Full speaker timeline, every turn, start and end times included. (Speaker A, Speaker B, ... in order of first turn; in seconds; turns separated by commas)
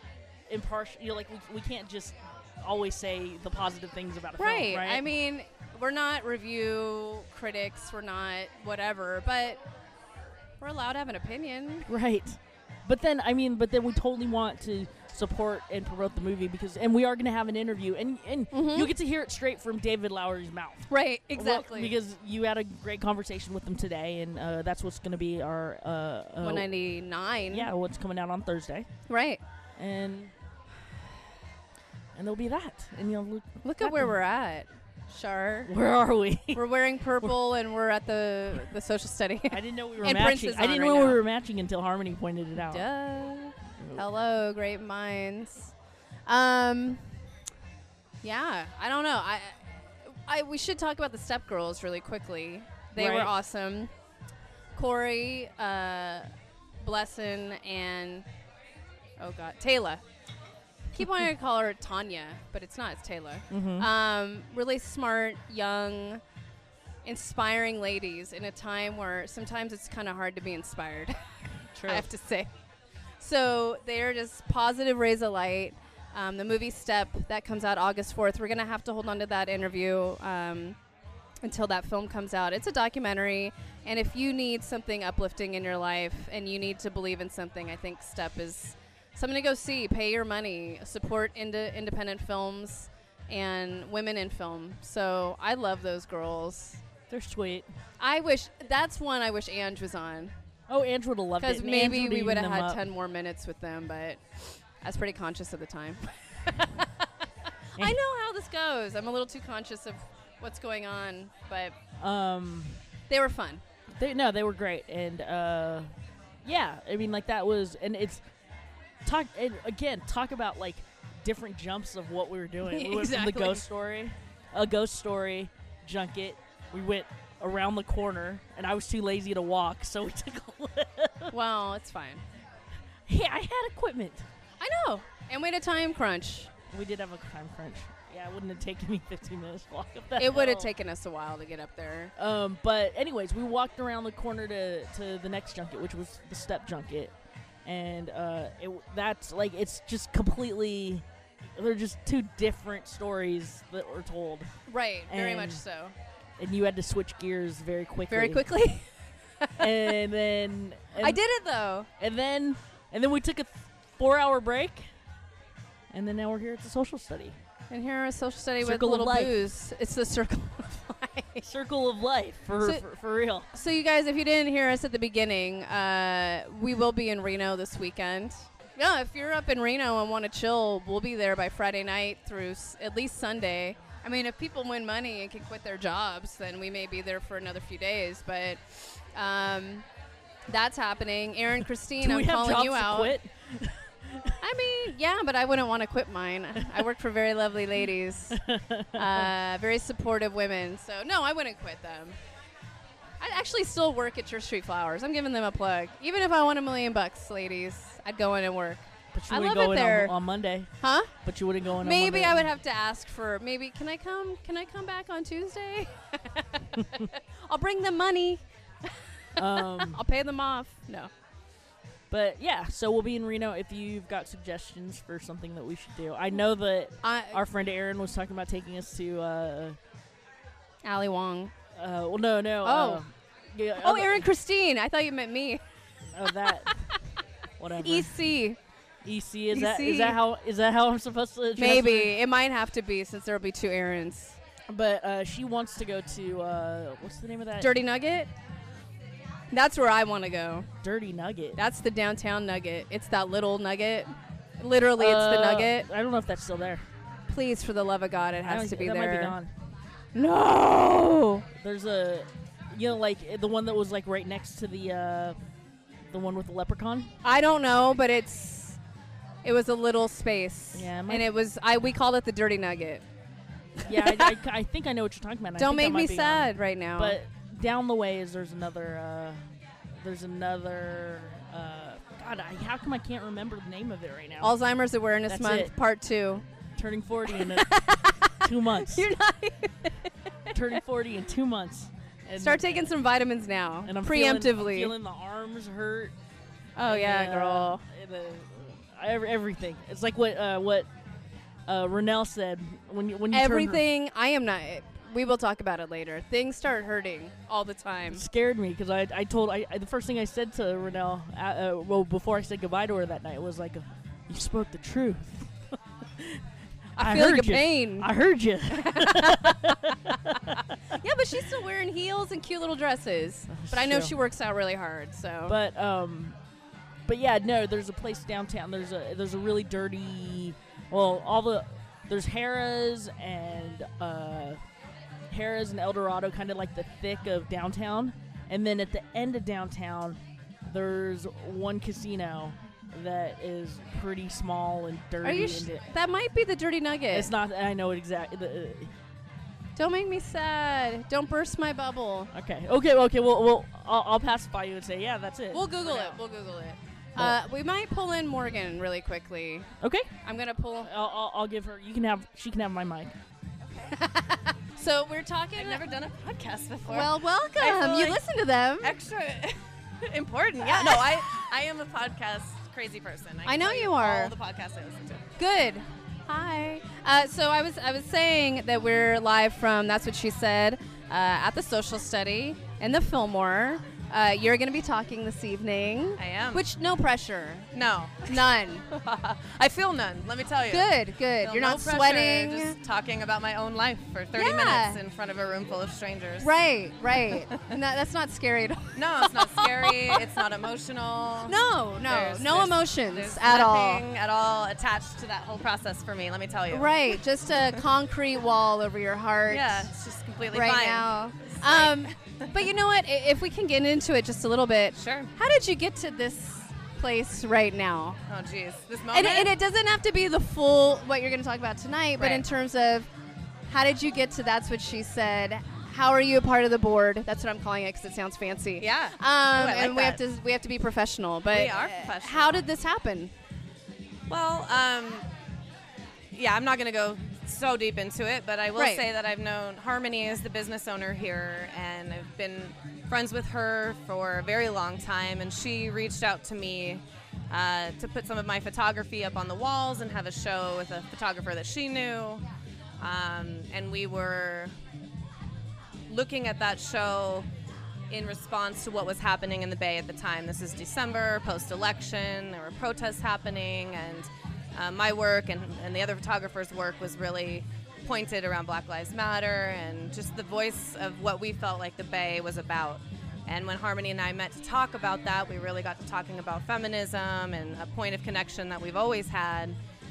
Speaker A: 0.5-5.1, Speaker B: 4.4-9.6, Speaker B: 10.6-11.9, Speaker A: 11.9-26.7, Speaker B: 18.5-18.9, Speaker B: 20.9-21.9, Speaker B: 26.4-27.7, Speaker A: 27.5-28.9, Speaker B: 29.1-29.4, Speaker A: 29.8-30.3, Speaker A: 32.1-34.1, Speaker B: 33.6-35.7, Speaker A: 35.7-36.6, Speaker B: 36.5-41.2, Speaker A: 39.5-42.9, Speaker B: 42.6-45.7, Speaker A: 43.8-44.0, Speaker B: 46.3-47.0, Speaker B: 48.2-53.9, Speaker A: 53.0-53.3, Speaker B: 54.8-56.3, Speaker B: 56.8-58.2, Speaker B: 59.2-60.0, Speaker B: 60.9-66.2, Speaker A: 63.5-63.9, Speaker B: 67.0-71.2, Speaker A: 71.8-72.1, Speaker B: 71.8-72.5, Speaker B: 73.2-80.8, Speaker B: 81.4-96.8, Speaker A: 97.1-97.7, Speaker B: 98.0-100.3, Speaker A: 100.7-102.8, Speaker B: 101.4-107.1, Speaker B: 107.8-111.8, Speaker A: 112.0-112.8, Speaker B: 113.1-113.6, Speaker A: 114.0-115.9, Speaker A: 116.4-118.2, Speaker A: 119.0-131.3, Speaker B: 122.7-123.7, Speaker B: 131.3-132.2, Speaker A: 133.1-134.3, Speaker B: 134.6-136.5, Speaker A: 136.7-140.7, Speaker B: 140.2-142.1, Speaker A: 142.2-147.1, Speaker A: 147.7-151.1, Speaker A: 151.6-154.5, Speaker B: 154.7-155.9, Speaker A: 155.1-155.6, Speaker A: 156.4-158.4, Speaker B: 158.1-158.9, Speaker B: 159.4-159.9, Speaker A: 159.6-161.2, Speaker B: 161.0-161.9, Speaker A: 162.0-164.9, Speaker A: 165.9-167.4, Speaker B: 167.7-171.5, Speaker A: 168.6-169.4, Speaker A: 171.4-173.5, Speaker B: 173.5-189.8, Speaker B: 190.5-193.2, Speaker A: 192.0-194.4, Speaker B: 194.4-198.4, Speaker A: 198.3-199.3, Speaker B: 198.9-202.2, Speaker B: 203.2-210.1, Speaker A: 209.1-212.5, Speaker B: 210.8-211.1, Speaker B: 211.8-221.1, Speaker A: 219.4-220.0, Speaker A: 222.1-229.8, Speaker B: 227.0-227.4, Speaker B: 230.8-231.5, Speaker A: 231.8-234.3, Speaker B: 232.6-233.0, Speaker B: 233.8-235.6, Speaker A: 236.1-236.8, Speaker B: 236.5-236.9, Speaker A: 237.6-238.1, Speaker B: 237.8-238.6, Speaker A: 239.0-242.2, Speaker B: 239.5-240.2, Speaker B: 241.6-244.4, Speaker A: 244.7-247.8, Speaker B: 247.6-248.3, Speaker B: 249.5-250.7, Speaker A: 250.8-251.6, Speaker B: 251.6-255.9, Speaker A: 255.0-256.9, Speaker B: 257.3-259.4, Speaker A: 258.4-259.5, Speaker B: 260.1-261.5, Speaker A: 261.6-265.4, Speaker A: 266.1-267.1, Speaker B: 267.2-268.8, Speaker B: 269.4-273.0, Speaker A: 270.7-271.3, Speaker B: 273.8-274.4, Speaker A: 273.9-279.4, Speaker B: 275.6-277.2, Speaker A: 280.0-284.5, Speaker B: 284.4-286.4, Speaker A: 285.3-285.7, Speaker A: 286.8-289.1, Speaker B: 287.3-290.6, Speaker A: 290.5-292.9, Speaker B: 292.4-294.9, Speaker A: 293.9-296.1, Speaker B: 296.8-297.8, Speaker A: 296.9-300.9, Speaker A: 301.7-303.8, Speaker B: 303.3-308.2, Speaker A: 308.1-321.0, Speaker B: 317.0-318.1, Speaker B: 318.7-325.6, Speaker A: 323.5-324.1, Speaker A: 325.5-326.4, Speaker A: 327.1-334.6, Speaker A: 335.3-345.8, Speaker B: 345.2-347.3, Speaker A: 347.1-348.9, Speaker B: 349.8-352.3, Speaker A: 352.3-356.1, Speaker B: 355.5-359.7, Speaker A: 359.8-360.1, Speaker B: 360.2-360.9, Speaker A: 360.8-363.1, Speaker B: 363.9-365.8, Speaker C: 365.6-368.2, Speaker B: 366.9-368.9, Speaker C: 368.8-375.3, Speaker B: 370.6-371.4, Speaker B: 373.5-374.3, Speaker B: 375.4-387.7, Speaker C: 386.2-386.6, Speaker C: 387.7-396.5, Speaker B: 388.3-388.9, Speaker B: 390.7-392.8, Speaker B: 394.4-395.0, Speaker B: 396.4-400.4, Speaker C: 397.3-397.7, Speaker C: 398.9-407.2, Speaker B: 401.5-404.0, Speaker B: 406.7-409.9, Speaker C: 409.5-412.5, Speaker B: 410.5-418.2, Speaker C: 414.9-415.3, Speaker C: 418.3-419.5, Speaker B: 419.1-423.1, Speaker C: 422.2-422.4, Speaker B: 423.7-433.3, Speaker C: 428.8-430.2, Speaker C: 431.5-432.6, Speaker C: 434.3-435.3, Speaker C: 436.3-452.4, Speaker B: 438.8-439.0, Speaker C: 453.0-454.7, Speaker C: 456.1-457.5, Speaker C: 458.1-479.8